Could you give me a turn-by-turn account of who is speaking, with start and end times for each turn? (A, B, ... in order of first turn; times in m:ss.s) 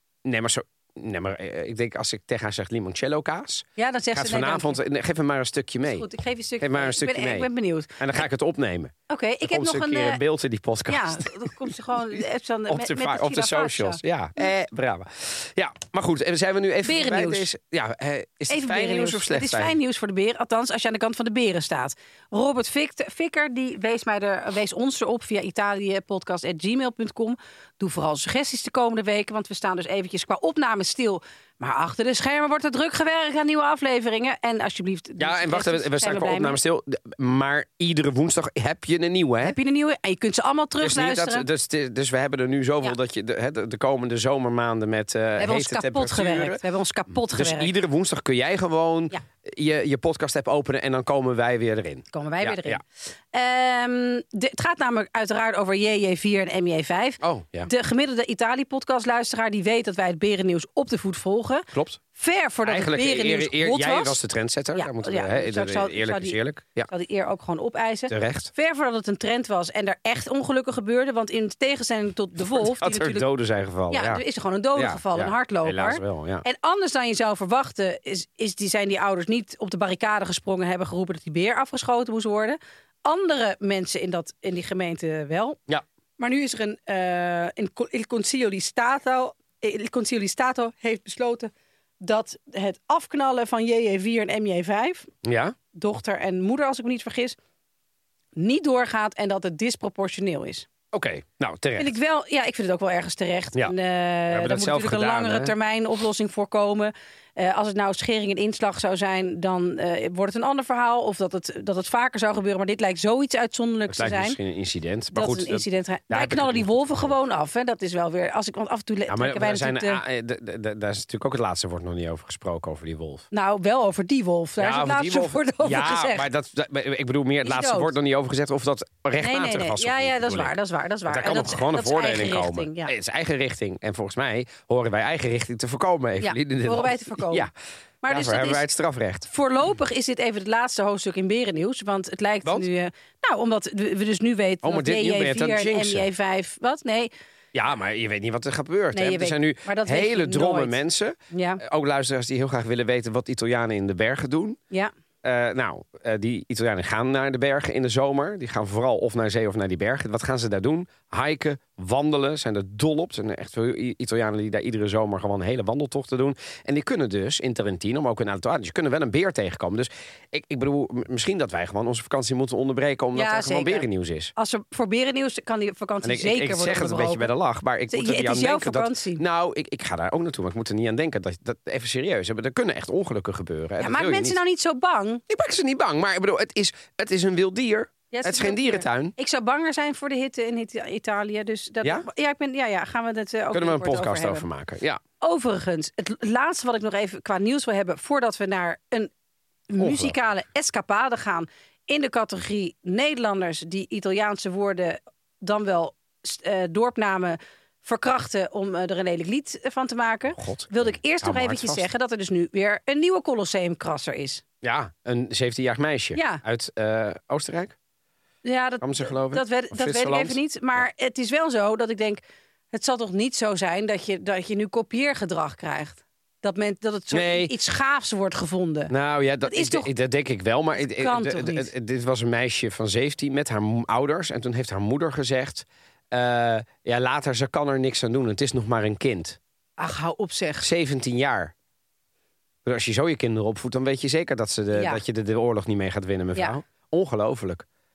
0:00.2-0:06.1 A
0:03.8-0:04.8 B
0:05.9-0:08.0 B
0:06.6-0:11.7 A
0:09.1-0:10.2 B
0:10.9-0:14.5 B
0:12.7-0:19.8 A
0:16.8-0:17.5 B
0:18.5-0:36.6 B
0:35.2-0:39.6 A
0:39.4-0:41.5 B
0:40.8-0:52.8 A
0:45.4-0:47.7 B
0:52.1-0:52.8 B
0:53.3-1:04.2 B
0:57.2-0:57.7 A
1:01.7-1:02.0 A
1:02.6-1:06.9 A
1:04.8-1:13.3 B
1:08.1-1:08.5 A
1:12.4-1:14.2 A
1:13.9-1:25.6 B
1:14.8-1:16.4 A
1:26.2-1:35.1 B
1:35.2-1:35.6 A
1:35.7-1:37.4 B
1:38.4-1:40.7 B
1:40.9-1:41.9 A
1:41.8-1:54.4 B
1:44.3-1:45.5 A
1:53.9-1:57.1 A
1:55.1-2:00.0 B
1:59.1-2:03.3 A
2:03.3-2:06.3 B
2:04.6-2:17.5 A
2:07.4-2:08.0 B
2:09.2-2:12.9 B
2:16.2-2:17.5 B
2:18.0-2:18.6 B
2:18.1-2:19.3 A
2:19.3-2:27.1 B
2:24.6-2:26.1 A
2:27.5-2:34.6 A
2:28.9-2:30.8 B
2:31.3-2:31.6 B
2:35.2-2:54.3 A
2:53.1-2:57.3 B
2:56.0-3:04.4 A
2:57.9-2:59.2 B
3:03.8-3:05.2 B
3:05.3-3:09.1 A
3:08.1-3:14.5 B
3:13.5-3:15.0 A
3:15.2-3:19.1 B
3:19.7-3:34.4 B
3:19.8-3:20.2 A
3:30.3-3:31.9 A
3:34.6-3:37.8 A
3:36.2-3:36.4 B
3:38.4-3:42.2 B
3:38.8-3:40.9 A
3:42.7-3:48.9 B
3:47.1-3:47.5 A
3:48.9-3:59.4 A
3:49.4-3:49.9 B
3:50.8-3:51.7 B
3:59.8-4:00.7 B
4:00.6-4:01.5 A
4:02.6-4:07.7 A
4:04.7-4:05.0 B